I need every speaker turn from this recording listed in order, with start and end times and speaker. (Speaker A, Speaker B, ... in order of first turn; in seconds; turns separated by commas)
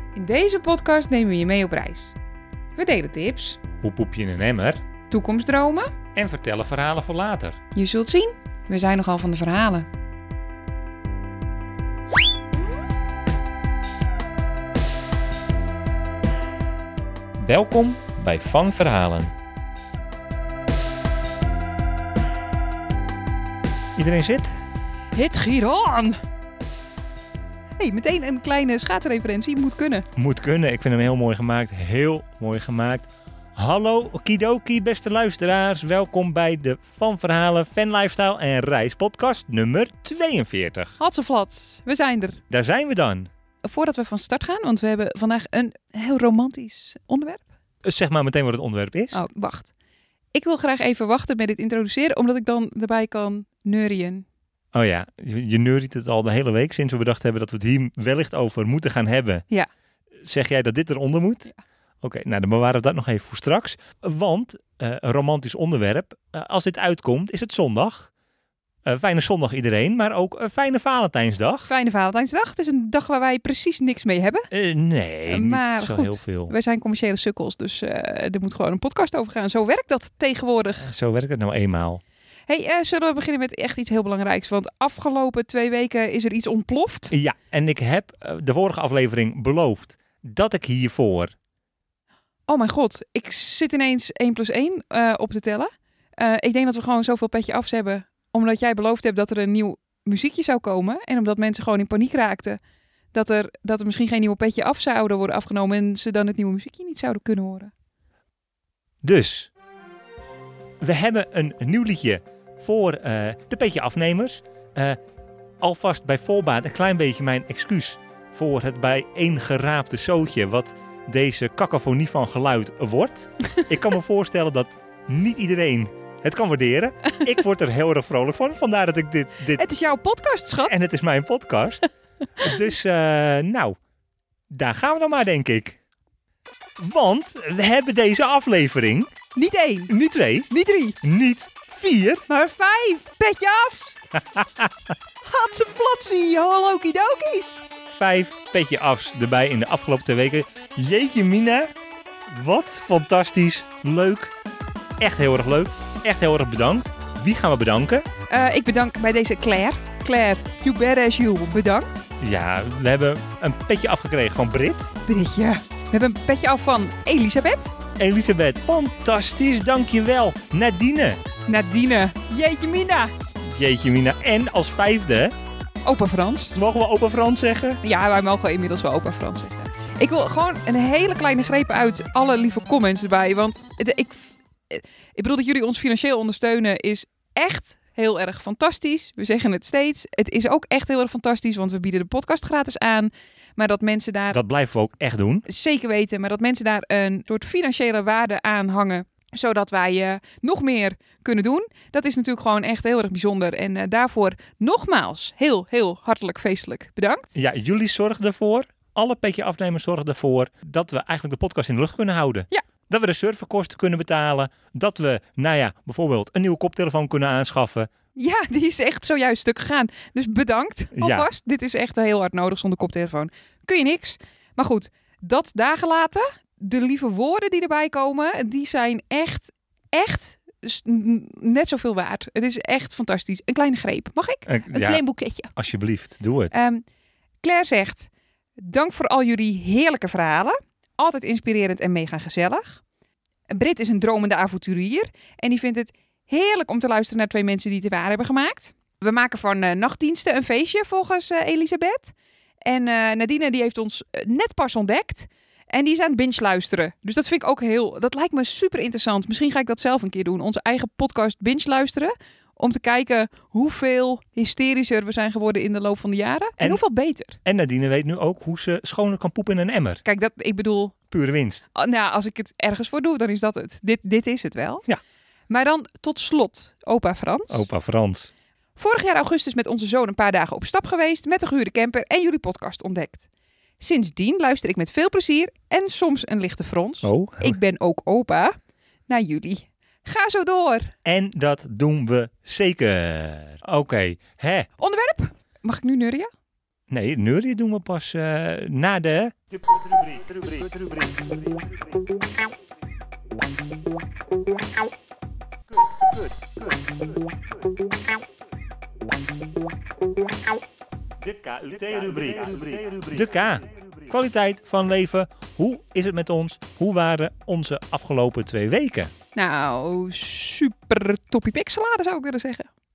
Speaker A: 0.1-2.2, Speaker A: 2.8-3.6, Speaker B: 3.8-4.8, Speaker A: 5.1-5.9, Speaker B: 6.2-7.6, Speaker A: 7.7-9.9, Speaker B: 17.4-19.3, Speaker B: 23.9-24.5, Speaker A: 25.1-26.2, Speaker A: 27.8-30.1, Speaker B: 30.1-41.0, Speaker A: 41.0-42.4, Speaker B: 42.5-43.3, Speaker A: 43.6-47.5, Speaker B: 47.8-49.2, Speaker A: 49.1-49.7, Speaker A: 50.3-54.3, Speaker B: 54.7-59.5, Speaker B: 60.2-61.5, Speaker B: 62.0-68.1, Speaker B: 68.8-71.7, Speaker A: 71.7-74.5, Speaker B: 74.5-76.5, Speaker A: 75.3-80.9, Speaker B: 80.8-82.0, Speaker A: 82.5-87.2, Speaker B: 87.1-91.3, Speaker A: 92.5-102.6, Speaker A: 103.1-107.7, Speaker B: 109.0-109.5, Speaker B: 110.8-115.0, Speaker B: 115.6-129.6, Speaker A: 129.6-130.7, Speaker B: 130.7-133.8, Speaker B: 134.5-135.8, Speaker B: 136.8-139.1, Speaker A: 139.3-139.9, Speaker B: 139.9-140.5, Speaker A: 140.5-141.0, Speaker B: 141.0-142.3, Speaker A: 142.3-144.0, Speaker B: 144.2-144.9, Speaker A: 145.2-147.6, Speaker B: 147.9-151.7, Speaker B: 152.3-154.3, Speaker B: 155.0-158.1, Speaker A: 158.3-162.1, Speaker B: 162.2-164.9, Speaker A: 165.1-167.8, Speaker B: 168.0-171.2, Speaker A: 171.5-173.1, Speaker B: 173.4-175.3, Speaker A: 175.8-176.6, Speaker B: 176.6-177.8, Speaker A: 177.8-194.4, Speaker B: 194.3-195.5, Speaker A: 195.5-207.3, Speaker B: 207.3-217.9, Speaker A: 218.2-235.5, Speaker B: 221.0-221.3, Speaker B: 234.5-235.0, Speaker B: 235.5-236.6, Speaker A: 236.5-236.8, Speaker A: 237.4-242.8, Speaker A: 243.5-252.1, Speaker A: 252.7-267.4, Speaker B: 267.4-270.0, Speaker A: 270.1-271.0, Speaker B: 271.1-271.7, Speaker A: 271.7-274.8, Speaker A: 275.5-277.7, Speaker B: 277.5-278.3, Speaker A: 278.8-283.2, Speaker A: 283.8-288.5, Speaker B: 287.0-287.6, Speaker A: 289.1-290.9, Speaker B: 291.1-294.7, Speaker A: 294.8-296.3, Speaker B: 296.9-301.1, Speaker B: 305.9-306.3, Speaker B: 311.2-319.1, Speaker A: 319.4-322.7